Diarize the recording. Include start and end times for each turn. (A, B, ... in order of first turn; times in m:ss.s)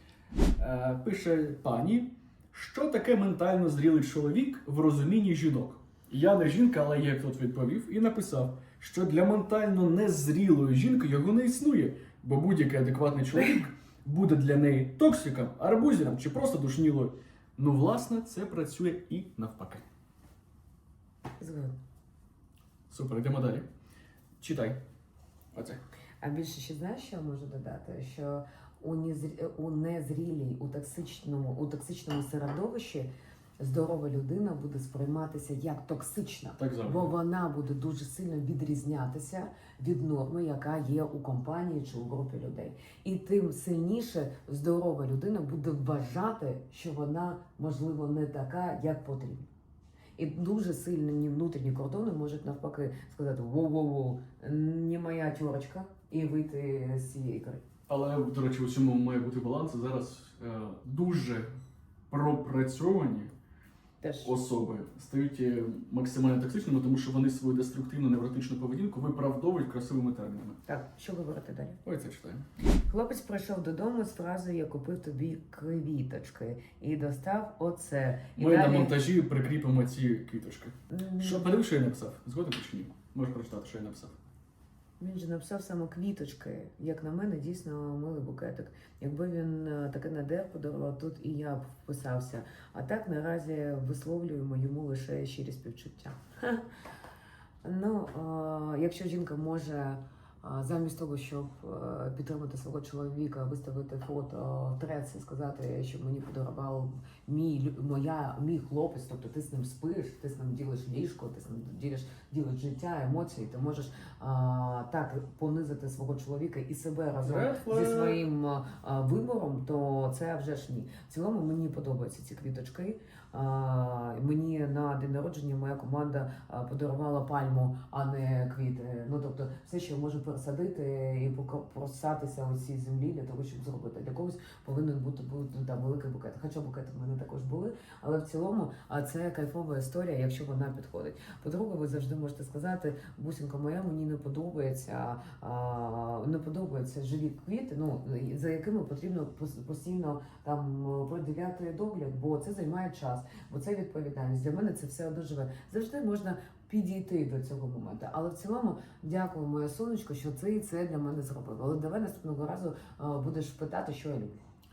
0:00.6-0:19.8 A
0:21.4-0:21.8 B
0:22.9-0:23.7 A
0:24.4-0:24.8 A
0:25.5-0:25.8 A
0:26.2-0:49.5 B
0:36.6-0:37.1 A
0:50.2-0:57.6 B
0:57.9-1:01.5 A
1:02.1-1:03.3 A
1:04.0-1:04.3 B
1:04.2-1:10.6 A
1:10.7-1:11.8 B
1:11.8-1:12.4 A
1:12.9-1:19.0 B
1:18.4-1:24.2 A
1:20.9-1:21.5 B
1:25.0-1:36.6 B
1:37.6-2:44.4 B
1:57.2-1:58.2 A